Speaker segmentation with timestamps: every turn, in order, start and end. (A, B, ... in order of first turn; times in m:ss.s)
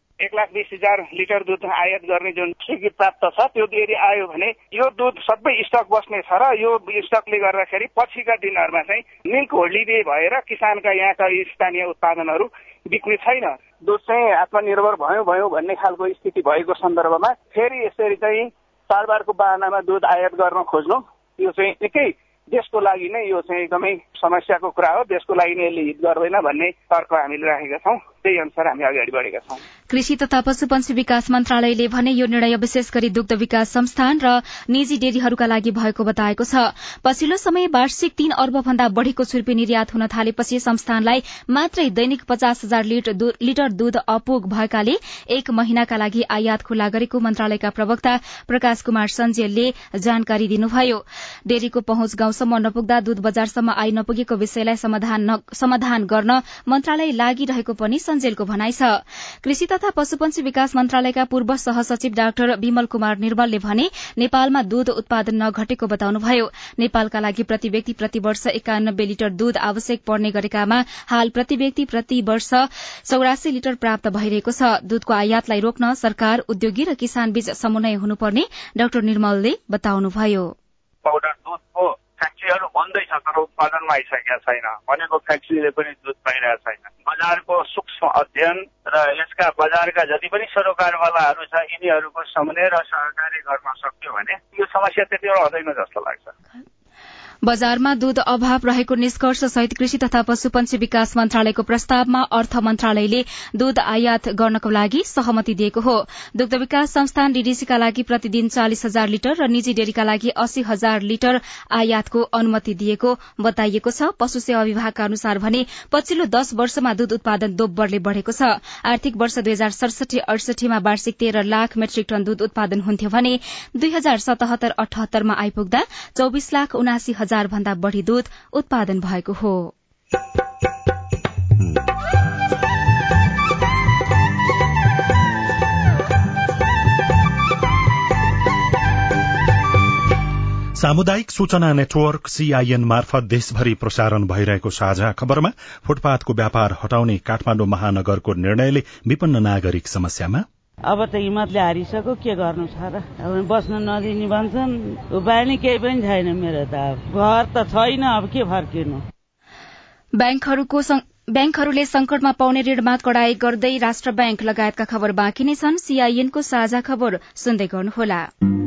0:00.2-0:29.6 A
0:29.9-1:20.5 B
1:21.0-1:36.3 A
1:37.4-2:09.7 B
2:20.8-2:30.4 C
2:30.9-2:39.0 D
2:40.2-2:48.3 B